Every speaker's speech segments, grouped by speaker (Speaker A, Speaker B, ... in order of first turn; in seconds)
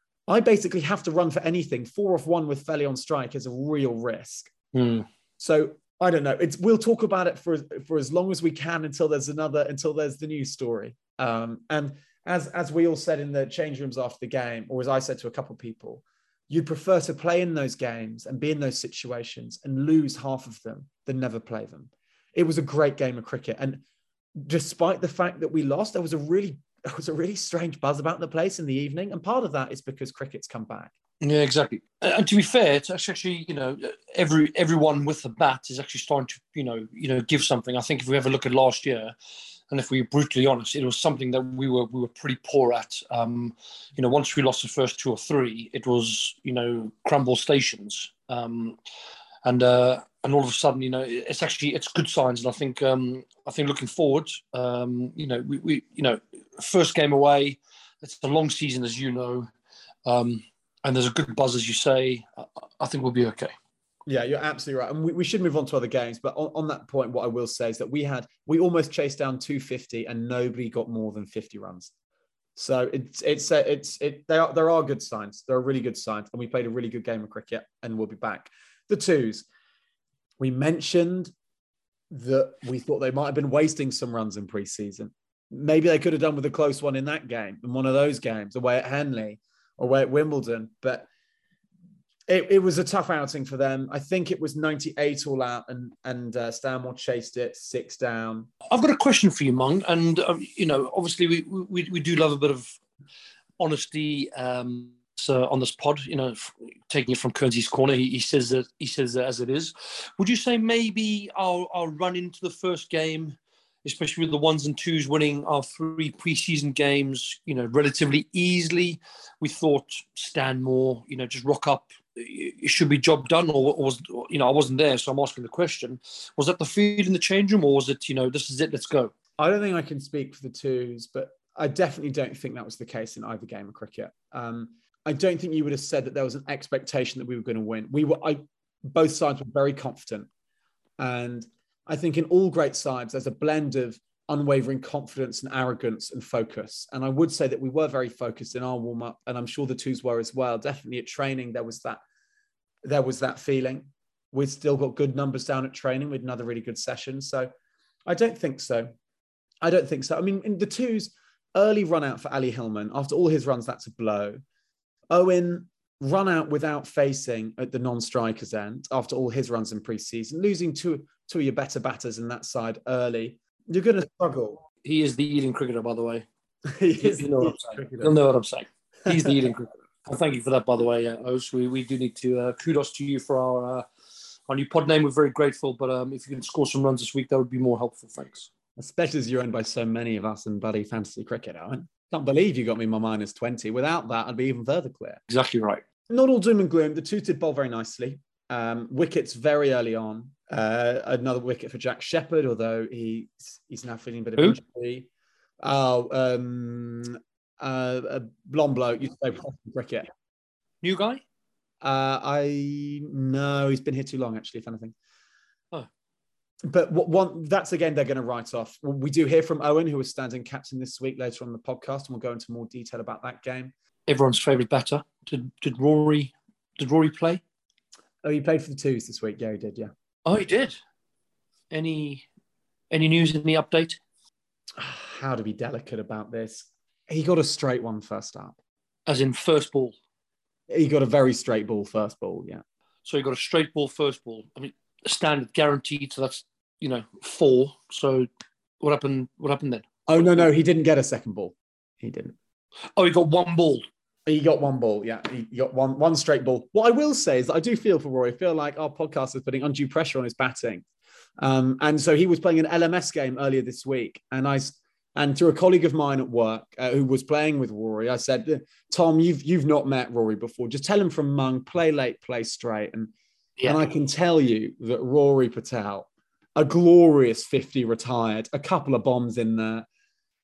Speaker A: 0.3-4.5, 5.4-23.8, 24.4-30.9, 64.1-71.9, 72.6-79.5, 80.4-81.3, 82.1-91.1, 92.3-98.5, 129.4-140.3, 141.0-152.0, 152.8-157.5, 158.1-158.9, 159.6-164.4, 165.1-174.6, 176.7-178.2, 188.8-195.2, 196.1-205.1, 205.6-210.1, 211.8-214.9, 216.7-223.7, 228.2-229.9, 234.8-238.5, 240.7-242.6, 250.1-252.3, 254.3-260.9, 261.4-273.1, 273.7-279.9
Speaker B: 4.7-5.1, 31.2-39.1, 39.7-48.8, 49.4-59.5, 60.0-63.5, 98.7-102.8, 103.6-129.1, 174.8-176.2, 177.0-183.9, 184.5-188.5, 195.3-195.8, 210.8-211.2, 224.1-227.4, 230.2-230.8, 231.7-232.3, 232.9-234.0, 239.1-240.0, 243.1-248.3, 248.8-250.2, 253.0-253.9, 273.6-273.8